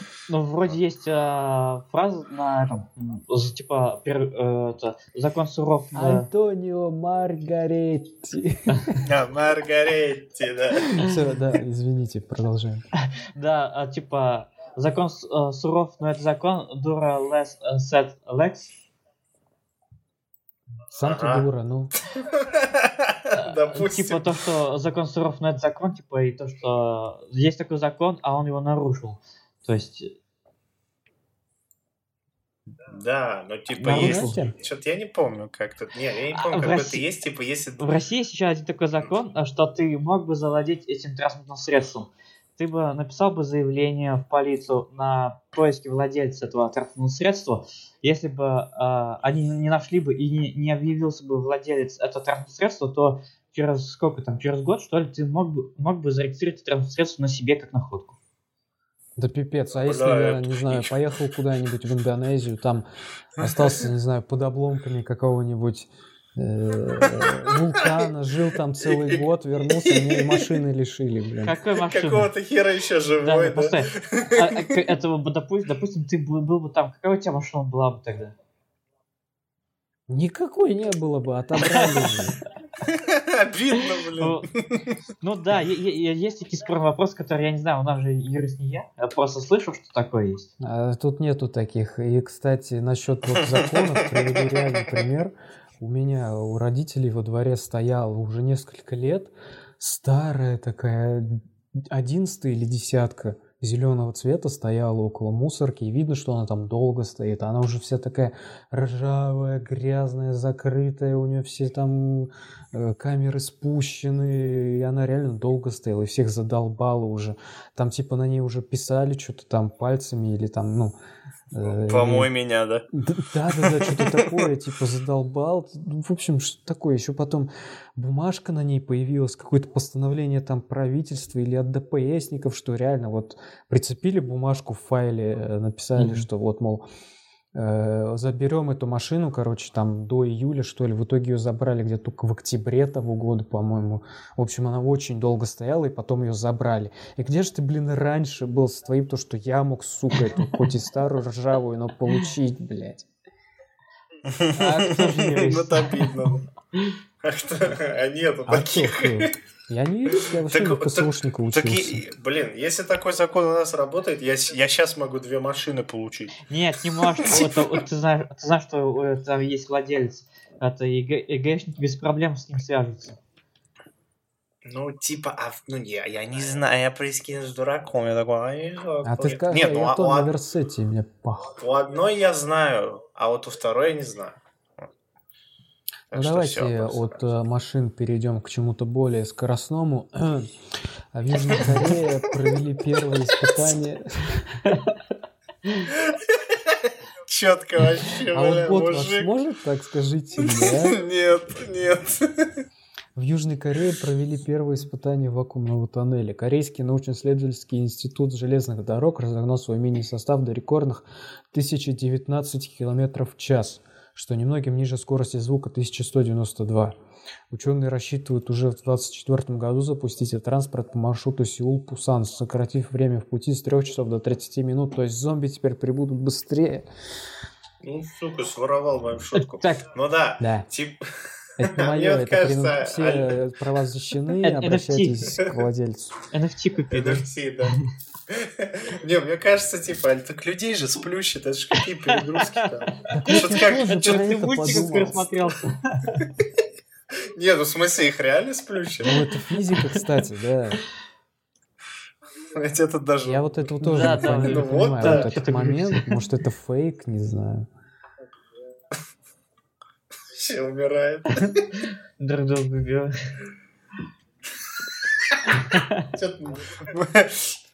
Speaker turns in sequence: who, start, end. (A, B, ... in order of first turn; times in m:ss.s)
0:00.3-0:06.2 A
0:05.9-0:09.1 B
0:09.0-0:11.0 C
0:10.9-0:12.8 B
0:13.0-0:18.7 A
0:20.9-0:21.9 B
0:21.0-0:21.5 C
0:22.2-0:24.4 C
0:23.3-0:30.1 A
0:32.8-0:37.9 C
0:33.8-0:34.4 A
0:33.9-0:34.5 B
0:36.3-0:37.0 A
0:37.8-0:58.2 A
0:59.2-1:02.8 B
0:59.8-1:01.0 C
1:03.4-1:11.6 B
1:07.0-1:07.4 C
1:08.8-1:10.6 C
1:11.4-1:12.3 A
1:11.8-1:14.8 C
1:13.2-1:18.3 A
1:20.1-1:22.4 B
1:21.6-1:22.1 A
1:22.8-1:25.0 C
1:23.8-1:24.5 A
1:25.2-1:30.5 A
1:30.6-2:00.9 B
1:33.3-1:34.7 C
2:01.5-2:02.3 B
2:01.6-2:02.9 C
2:02.9-2:16.8 B
2:03.5-2:04.4 C
2:16.0-2:16.2 A
2:17.5-2:33.1 B
2:34.2-2:36.4 C
2:34.5-2:37.0 A
2:37.2-2:39.3 C
2:38.5-2:42.0 B
2:40.1-2:46.4 C
2:46.5-2:53.2 A
2:47.2-2:47.8 C
2:54.6-3:00.3 C
2:59.0-3:01.6 B
3:01.6-3:04.8 C
3:06.1-3:07.3 C
3:06.1-3:10.5 B
3:11.1-3:14.6 B
3:11.5-3:11.9 C
3:14.6-3:15.0 A
3:15.9-3:19.3 C
3:18.3-3:21.0 B
3:20.4-3:22.6 C
3:23.1-3:37.0 B
3:37.5-3:46.8 B
3:47.8-3:53.4 C
3:49.3-3:49.9 A
3:50.4-3:50.7 B
3:51.6-3:56.2 B
3:54.4-3:55.2 A
3:56.3-3:57.9 A
3:56.9-4:05.0 C
4:02.1-4:02.7 A
4:03.1-4:05.2 B
4:03.2-4:06.3 A
4:07.3-4:09.2 C
4:09.0-4:10.8 B
4:09.7-4:10.0 A
4:12.5-4:15.4 C
4:13.2-4:17.7 B
4:13.8-4:16.2 A
4:20.3-4:21.6 C
4:21.4-4:23.1 A
4:25.5-4:26.1 A
4:26.1-4:27.6 C